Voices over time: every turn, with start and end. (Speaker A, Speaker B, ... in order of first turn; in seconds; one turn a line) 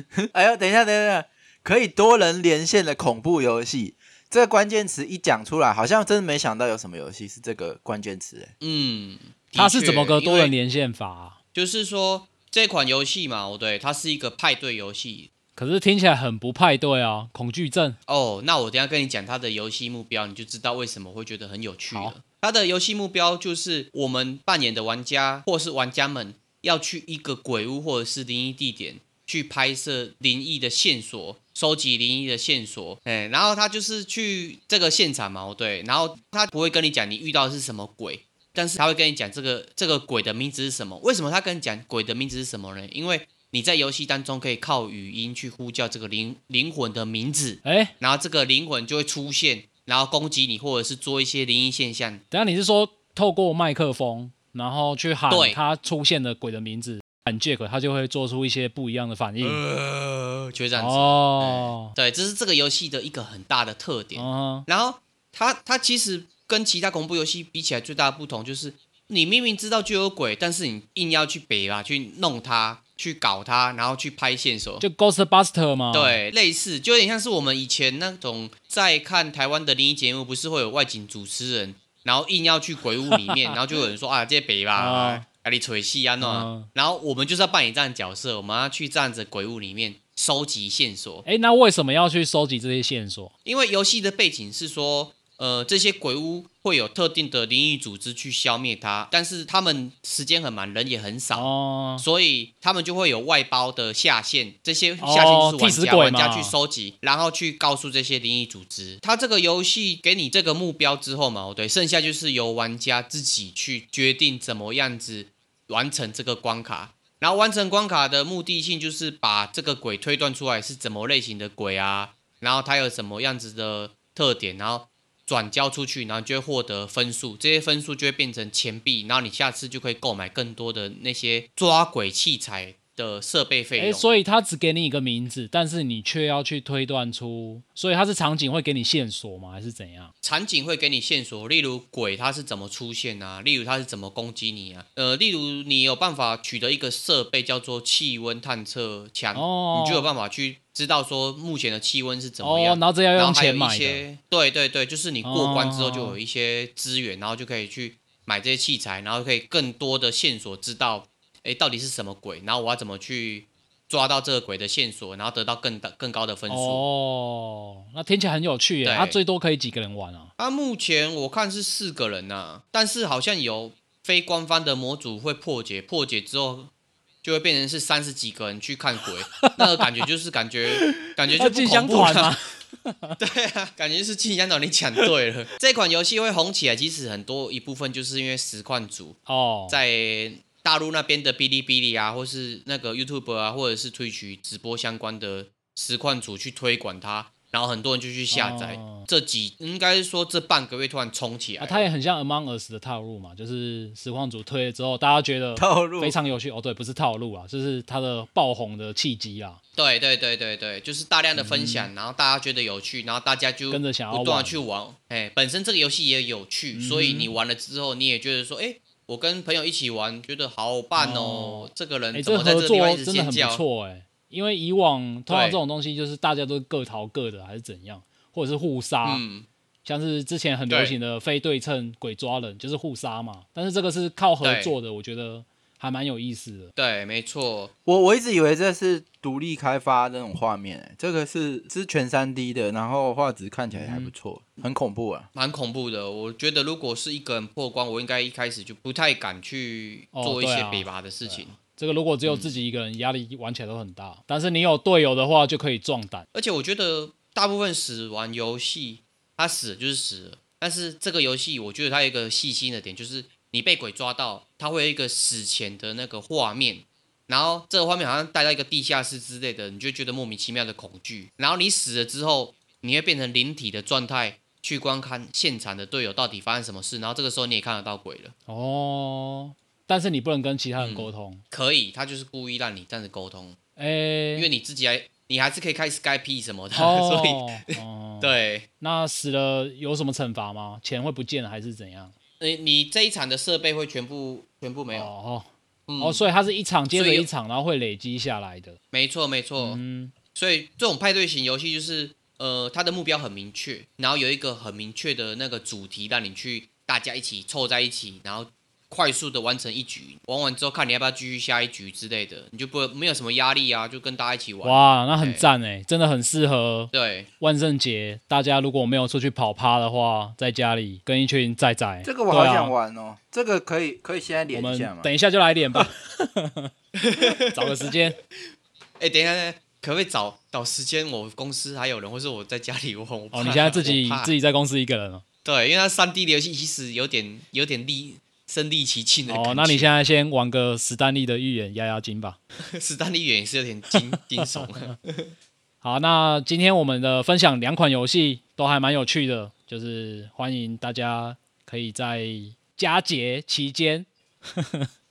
Speaker A: 0.2-8.5
Speaker B: 8.6-10.5
Speaker C: 9.6-11.4
Speaker B: 11.5-15.3
Speaker C: 15.6-18.0
Speaker B: 18.1-52.2
Speaker C: 47.6-47.9
Speaker C: 52.3-59.6
Speaker B: 55.3-55.6
Speaker B: 59.4-74.8
Speaker C: 60.8-61.9
Speaker C: 64.2-64.7
Speaker C: 74.8-76.2
Speaker B: 75.9-91.2
Speaker C: 83.3-83.5
Speaker C: 84.8-85.2
Speaker C: 86.2-86.7
Speaker C: 91.2-93.3
Speaker B: 93.4-134.1
Speaker C: 101.3-102.0
Speaker C: 105.0-106.5
Speaker C: 133.8-140.1
Speaker B: 140.2-166.8
Speaker C: 149.3-150.1
Speaker C: 152.4-154.0
Speaker C: 155.2-156.2
Speaker C: 166.5-170.3
Speaker B: 168.8-169.2
Speaker B: 170.4-176.7
Speaker B: 177.2-182.3
Speaker C: 179.3-179.7
Speaker C: 180.7-183.2
Speaker B: 183.2-201.8
Speaker C: 189.3-189.8
Speaker C: 198.3-199.1
Speaker C: 201.6-209.6
Speaker A: 205.6-206.2
Speaker B: 209.7-223.6
Speaker C: 211.3-211.9
Speaker C: 213.7-214.6
Speaker C: 216.7-217.3
Speaker C: 220.9-229.2
Speaker B: 225.3-225.6
Speaker B: 229.0-229.5
Speaker C: 229.8-236.7
Speaker B: 230.7-230.9
Speaker B: 234.4-234.7
Speaker B: 236.8-237.7
Speaker A: 237.8-245.3
Speaker C: 243.7-244.1
Speaker B: 245.3-251.6
Speaker C: 250.1-256.2
Speaker B: 252.2-252.6
Speaker B: 256.3-278.3
Speaker C: 278.5-281.4
Speaker B: 280.8-283.6
Speaker C: 283.8-284.5
Speaker B: 284.4-288.7
Speaker C: 286.8-292.1
Speaker B: 292.4-295.1
Speaker C: 294.9-298.8
Speaker B: 295.9-296.3
Speaker B: 296.9-297.3
Speaker B: 298.9-299.8
Speaker C: 299.6-300.1
Speaker B: 300.3-315.4
Speaker C: 314.6-322.7
Speaker B: 316.9-317.3
Speaker A: 322.0-325.1
Speaker C: 324.5-326.7
Speaker B: 326.9-327.9
Speaker C: 327.5-328.2
Speaker B: 329.0-334.3
Speaker C: 333.3-335.2
Speaker B: 335.4-339.9
Speaker C: 339.3-342.4
Speaker B: 342.7-345.3
Speaker C: 345.8-354.9